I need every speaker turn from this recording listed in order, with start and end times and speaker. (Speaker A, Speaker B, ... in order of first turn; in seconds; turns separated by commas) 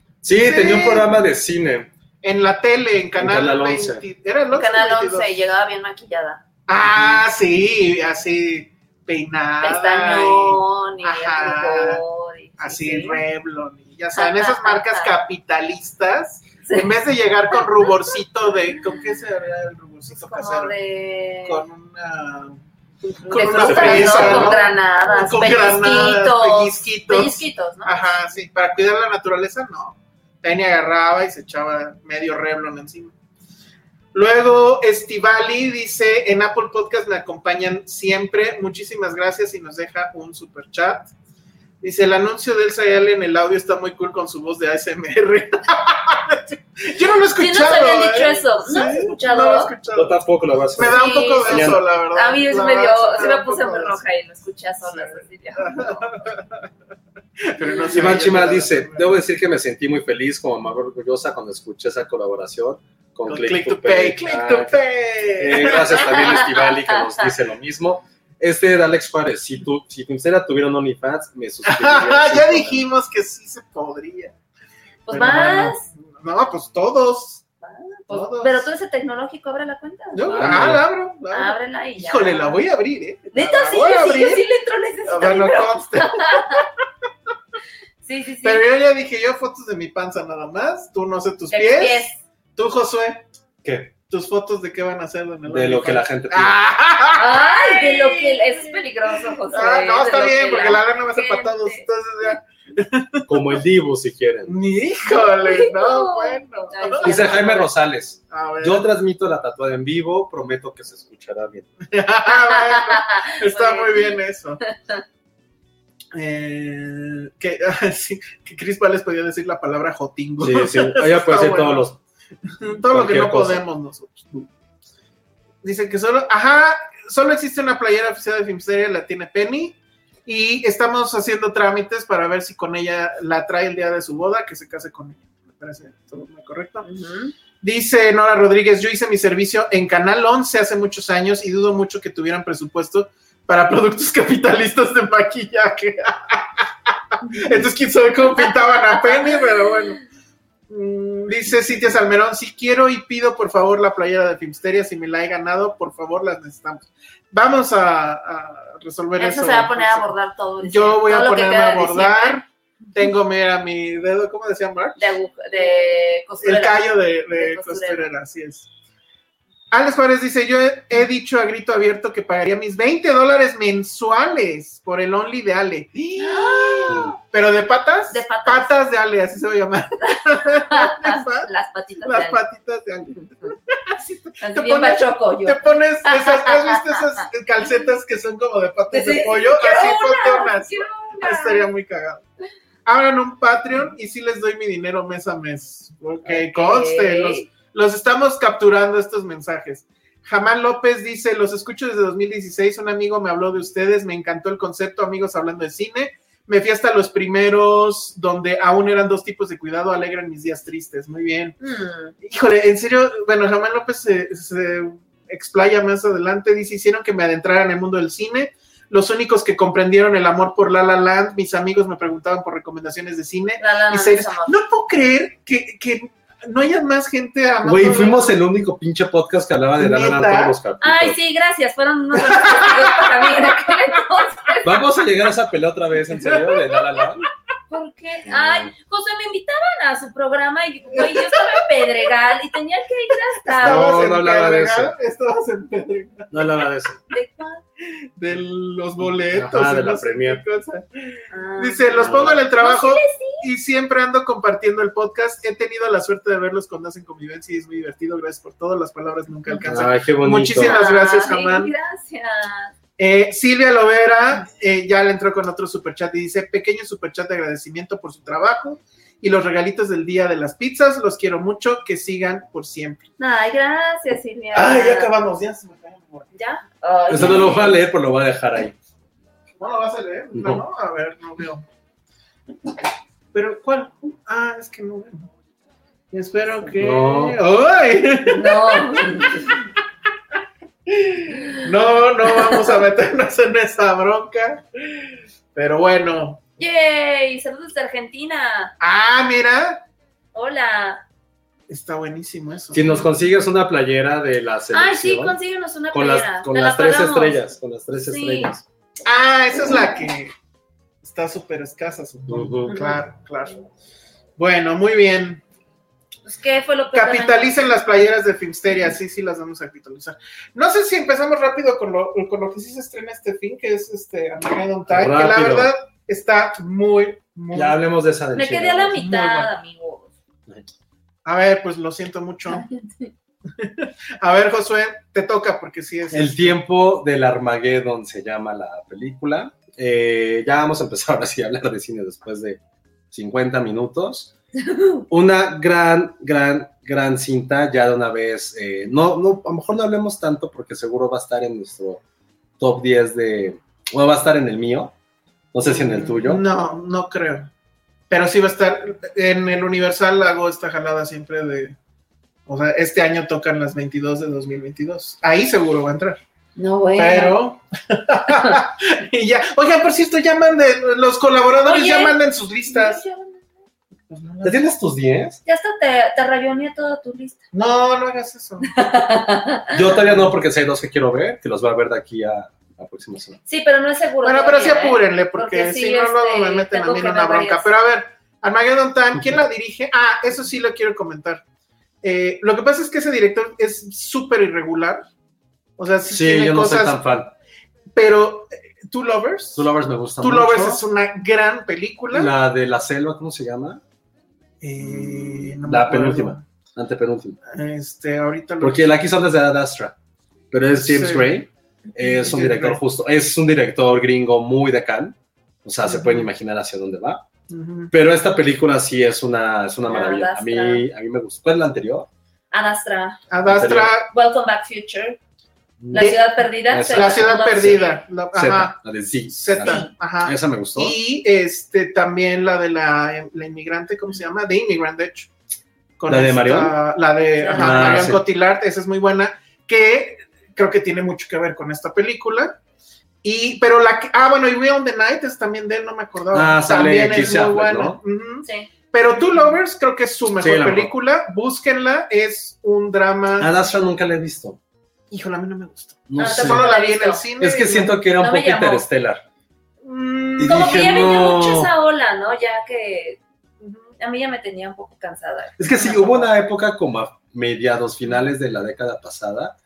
Speaker A: 0.2-1.9, Speaker B: 0.4-1.1, Speaker B: 2.2-5.3, Speaker A: 3.2-4.0, Speaker C: 4.5-6.4, Speaker B: 6.7-12.0, Speaker A: 6.8-7.2, Speaker C: 9.6-13.2, Speaker B: 12.6-20.7, Speaker C: 14.1-15.1, Speaker C: 16.6-16.9, Speaker C: 17.5-18.1, Speaker C: 20.1-21.6, Speaker B: 21.4-33.1, Speaker C: 23.3-28.2, Speaker A: 23.6-24.6, Speaker B: 34.1-41.1, Speaker B: 41.8-50.2, Speaker C: 47.4-49.7, Speaker A: 49.9-51.8, Speaker B: 50.8-54.0, Speaker C: 50.9-56.1, Speaker B: 54.8-56.5, Speaker B: 57.5-59.1, Speaker A: 57.9-64.7, Speaker B: 63.3-66.4, Speaker A: 65.4-72.8, Speaker C: 66.2-67.2, Speaker B: 71.7-74.3, Speaker C: 75.0-75.9, Speaker B: 75.1-77.5, Speaker C: 77.6-80.6, Speaker B: 78.1-78.7, Speaker B: 80.1-84.5, Speaker A: 80.3-80.8, Speaker C: 81.3-82.6, Speaker C: 83.3-86.6, Speaker B: 85.1-86.7, Speaker C: 88.0-88.6, Speaker B: 88.4-93.3, Speaker C: 91.5-92.2, Speaker A: 93.6-93.9, Speaker B: 94.0-98.8, Speaker A: 95.5-96.5, Speaker C: 97.1-101.9, Speaker B: 99.5-103.3, Speaker A: 103.3-104.5, Speaker B: 104.5-107.6, Speaker C: 105.0-107.7, Speaker A: 107.0-111.7, Speaker B: 108.3-108.9, Speaker B: 111.9-114.6, Speaker C: 112.3-115.0, Speaker B: 116.1-121.8, Speaker A: 120.4-122.0, Speaker B: 122.6-124.4, Speaker A: 122.9-123.6, Speaker B: 125.6-136.9, Speaker C: 136.8-137.3, Speaker B: 137.6-150.0, Speaker C: 148.9-149.4, Speaker B: 150.7-165.0, Speaker C: 159.2-162.4, Speaker C: 165.0-168.1, Speaker B: 166.4-168.7, Speaker B: 169.7-181.5, Speaker C: 176.2-177.1, Speaker C: 178.1-178.7, Speaker C: 180.0-182.4, Speaker B: 182.0-192.2, Speaker C: 184.4-187.2, Speaker C: 188.9-191.7, Speaker B: 192.8-211.6, Speaker C: 196.2-197.5, Speaker C: 211.6-212.1, Speaker B: 212.2-228.4, Speaker C: 223.6-224.6, Speaker A: 227.6-231.2, Speaker B: 229.8-230.6, Speaker C: 230.8-234.8, Speaker B: 232.3-233.1, Speaker A: 234.6-237.2, Speaker C: 237.7-244.0, Speaker A: 238.3-238.7, Speaker B: 240.9-241.4, Speaker B: 243.4-246.5, Speaker A: 243.6-244.9, Speaker A: 246.3-247.0, Speaker C: 247.1-247.6, Speaker B: 248.2-261.7, Speaker A: 249.0-250.4, Speaker C: 251.3-253.5, Speaker A: 251.9-252.4, Speaker A: 259.7-260.8, Speaker C: 260.6-262.7, Speaker B: 263.0-273.1, Speaker C: 273.2-275.1, Speaker B: 274.5-276.3, Speaker C: 276.3-277.8, Speaker A: 277.1-278.7, Speaker B: 277.1-277.6, Speaker B: 279.6-281.6, Speaker A: 280.3-280.6, Speaker B: 283.3-285.3, Speaker B: 286.1-289.7, Speaker A: 286.8-287.4, Speaker C: 288.3-289.5, Speaker B: 290.9-296.4, Speaker C: 296.6-298.7, Speaker B: 298.8-299.8, Speaker C: 300.3-301.0, Speaker B: 301.7-303.1, Speaker A: 302.7-305.4, Speaker C: 304.7-307.4, Speaker A: 305.9-308.6, Speaker C: 308.1-308.5, Speaker B: 309.1-310.3, Speaker B: 311.0-313.7, Speaker A: 312.3-312.7, Speaker C: 312.7-313.0, Speaker B: 314.4-315.4, Speaker C: 316.2-317.5, Speaker B: 316.9-327.8, Speaker A: 324.9-325.7, Speaker A: 327.5-329.0, Speaker C: 328.3-330.1, Speaker B: 328.9-329.5, Speaker B: 331.2-332.6, Speaker C: 332.5-333.1, Speaker B: 333.6-336.6, Speaker A: 336.1-342.6, Speaker A: 343.1-344.3, Speaker C: 344.6-345.0, Speaker A: 345.1-352.0, Speaker A: 352.6-354.9, Speaker A: 355.5-356.4, Speaker B: 355.6-357.5, Speaker B: 358.1-361.7, Speaker B: 362.5-366.2, Speaker C: 366.6-367.4, Speaker B: 366.9-373.0, Speaker C: 371.6-373.4, Speaker B: 374.1-374.6, Speaker A: 374.4-375.4, Speaker C: 375.4-377.4, Speaker B: 377.5-378.7, Speaker C: 378.7-379.8, Speaker A: 379.7-383.4, Speaker B: 380.0-380.3, Speaker C: 383.5-387.7, Speaker B: 384.2-391.4, Speaker B: 392.0-395.1, Speaker B: 395.8-397.0, Speaker A: 396.1-397.3, Speaker B: 397.9-399.7, Speaker A: 399.6-400.8, Speaker B: 400.2-402.3, Speaker A: 402.1-403.8, Speaker B: 404.6-406.4, Speaker A: 404.8-407.4, Speaker B: 407.5-409.0, Speaker A: 408.6-409.9, Speaker A: 410.5-417.2, Speaker B: 410.8-411.3, Speaker B: 412.0-412.8, Speaker B: 415.9-416.3, Speaker B: 417.5-417.9, Speaker A: 417.9-422.1, Speaker C: 419.9-420.8, Speaker C: 422.5-423.2, Speaker B: 423.3-424.1, Speaker A: 423.4-423.9, Speaker C: 424.1-425.2, Speaker A: 425.8-426.1, Speaker C: 425.9-428.0, Speaker B: 425.9-426.2, Speaker A: 426.7-427.8, Speaker B: 426.9-428.8, Speaker A: 428.3-431.0, Speaker B: 429.3-435.3, Speaker C: 429.6-429.9, Speaker B: 436.0-442.6, Speaker A: 436.1-436.8, Speaker C: 437.4-438.1, Speaker A: 437.5-438.2, Speaker B: 443.2-453.5, Speaker A: 446.3-448.0, Speaker C: 448.4-448.7, Speaker A: 450.4-450.9, Speaker A: 453.4-454.6, Speaker B: 455.1-457.9, Speaker A: 456.1-456.7, Speaker C: 456.2-457.2, Speaker A: 457.4-459.2, Speaker C: 458.2-458.9, Speaker B: 459.8-461.1, Speaker A: 460.4-461.7, Speaker C: 460.4-463.2, Speaker B: 463.6-463.9, Speaker C: 464.0-466.0, Speaker A: 465.6-469.6, Speaker B: 465.7-466.2